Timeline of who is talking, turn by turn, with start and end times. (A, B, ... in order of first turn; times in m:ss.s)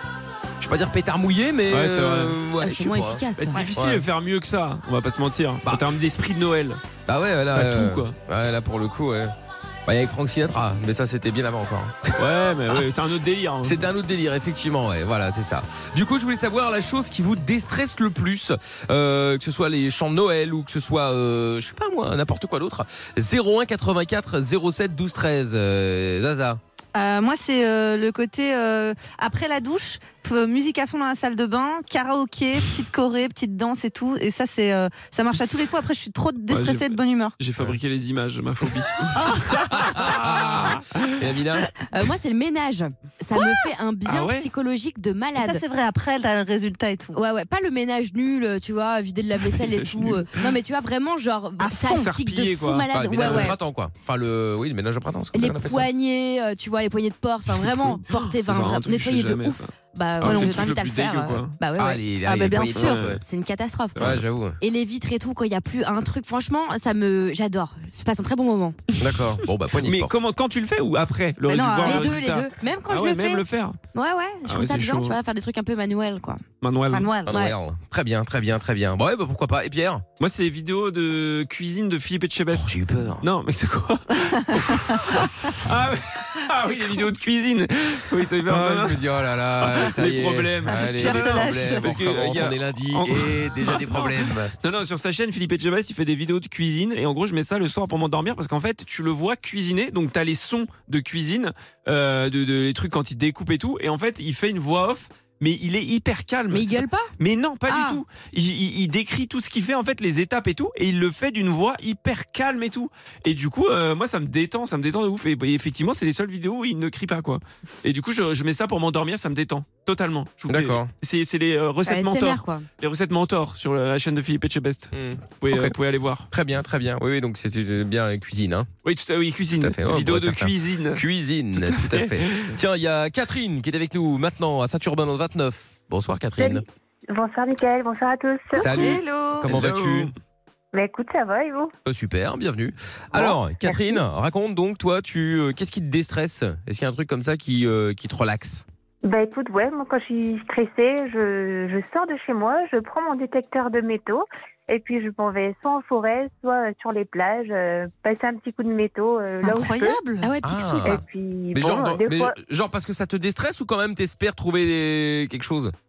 0:00.6-0:04.0 A
0:01.7-0:02.4 B
0:02.6-0:03.6 C
0:03.4-0:06.8 B
0:05.6-0:05.9 A
0:07.1-0:09.3 A
0:07.5-0:08.1 B
0:09.8-0:12.8 A
0:12.2-0:13.8 B
0:13.6-0:26.6 A
0:26.9-0:37.3 D
0:36.5-0:41.2 B
0:39.1-0:39.8 D
0:39.6-0:41.7 A
0:41.9-0:45.6 C
0:43.3-0:43.6 D
0:44.0-0:44.5 B
0:45.4-0:47.2 D
0:47.1-0:53.6 C
0:49.6-0:50.2 B
0:51.6-0:52.1 D
0:51.9-0:53.5 B
0:52.9-0:55.9 A
0:55.3-1:02.0 C
0:57.6-1:01.5 B
1:00.2-1:00.6 D
1:01.8-1:03.2 A
1:02.2-1:03.0 D
1:02.7-1:03.2 B
1:03.2-1:08.8 C
1:04.0-1:04.6 A
1:09.0-1:10.2 A
1:09.8-1:13.8 B
1:11.5-1:12.2 D
1:11.8-1:13.4 C
1:13.9-1:16.4 C
1:14.4-1:15.2 B
1:16.6-1:17.1 B
1:16.9-1:17.3 D
1:17.2-1:20.0 A
1:17.3-1:17.5 C
1:20.2-1:29.0 B
1:22.5-1:23.2 A
1:28.5-1:34.5 A
1:29.6-2:06.3 B
1:30.7-1:31.9 D
1:46.5-1:47.1 C
1:47.7-1:48.0 C
2:00.5-2:00.9 A
2:01.8-2:02.6 C
2:04.9-2:05.8 A
2:06.3-2:08.7 A
2:08.8-2:11.0 B
2:09.6-2:16.6 A
2:11.6-2:12.6 B
2:16.4-2:18.8 E
2:18.6-2:19.5 D
2:18.6-2:20.1 A
2:19.5-2:20.1 B
2:20.7-2:21.7 E
2:21.8-2:28.6 A
2:23.6-2:24.0 E
2:29.0-2:40.0 E
2:39.4-2:40.4 D
2:40.2-2:41.0 C
2:40.4-2:41.0 A
2:40.8-2:42.3 E
2:41.5-2:45.7 A